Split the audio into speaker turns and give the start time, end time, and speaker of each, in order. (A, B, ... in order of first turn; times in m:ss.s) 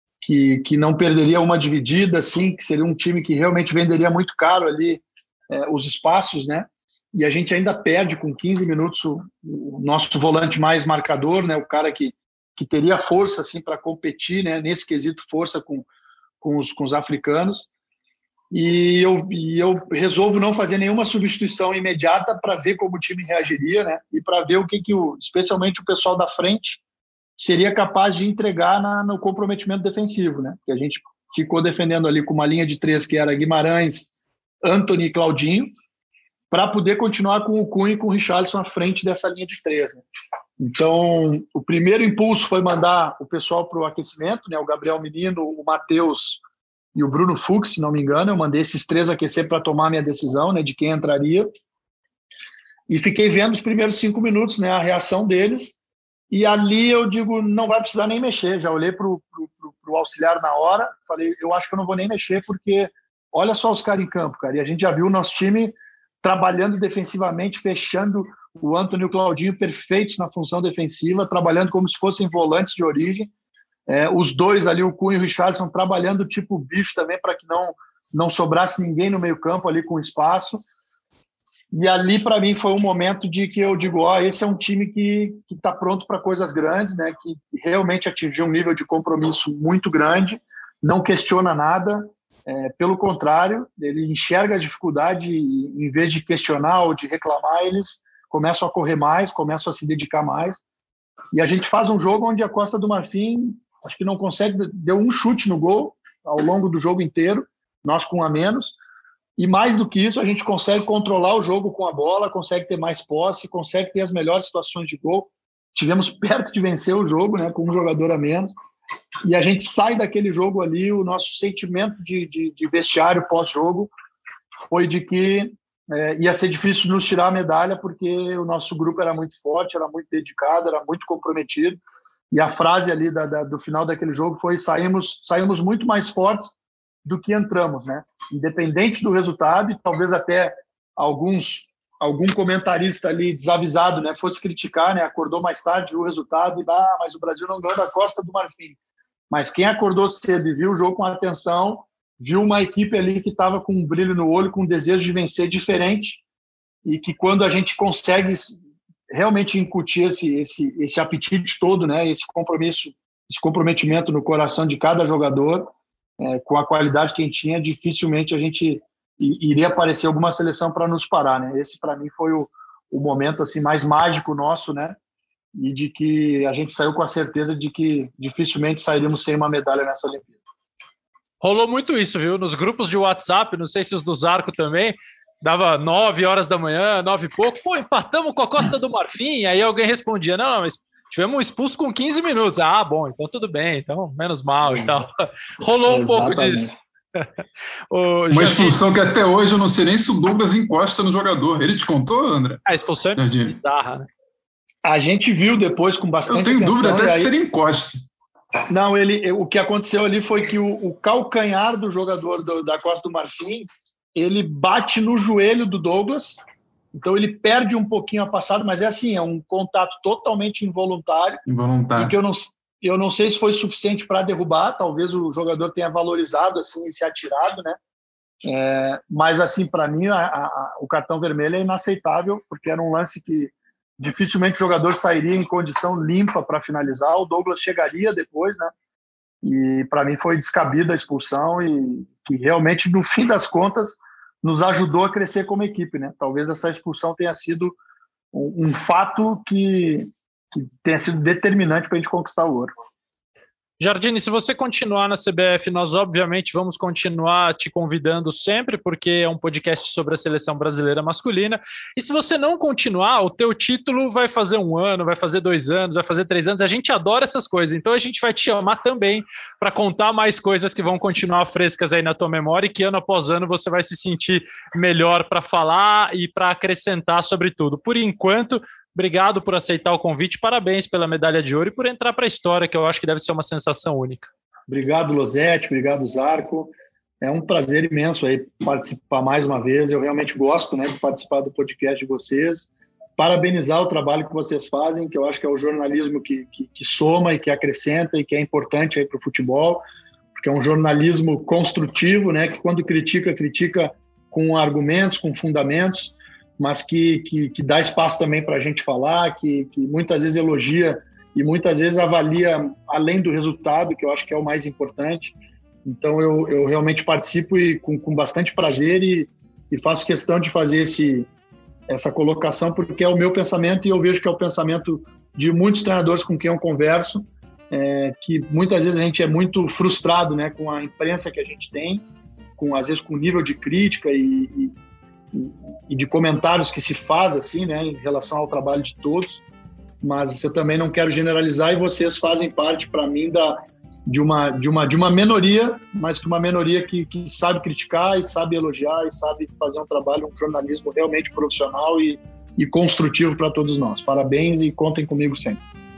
0:00.2-0:15.9 A
0:16.4-0:17.7 A
0:18.5-0:26.8 A
0:27.4-0:34.1 A
0:34.6-0:35.7 A
0:36.5-0:40.0 A
0:40.6-0:46.4 A
0:46.9-0:51.5 A
0:52.9-0:55.8 A
0:56.3-1:13.3 A
1:13.9-1:20.6 A
1:21.7-1:40.6 A
1:41.3-1:48.8 A
1:49.4-1:58.5 A
1:59.2-2:03.9 A
2:04.6-2:11.8 A
2:12.3-2:28.8 A
2:29.3-2:36.2 A
2:36.8-2:38.6 A
2:39.1-2:55.0 A
2:55.5-3:00.4 A
3:01.4-3:17.3 B
3:15.8-3:16.7 A
3:17.9-3:18.8 B
3:18.3-3:22.6 C
3:22.6-3:24.1 B
3:23.2-3:23.5 C
3:24.8-3:27.3 A
3:26.3-3:28.0 C
3:28.7-3:36.4 A
3:36.9-3:41.4 A
3:41.4-3:42.2 C
3:42.0-3:47.8 A
3:48.4-3:58.7 A
3:59.4-4:07.8 A
4:08.3-4:12.7 A
4:13.8-4:44.3 B
4:44.7-4:59.8 A
5:00.3-5:21.3 A
5:21.9-5:32.0 A
5:32.6-5:34.7 A
5:35.3-5:39.4 A
5:40.0-5:55.6 A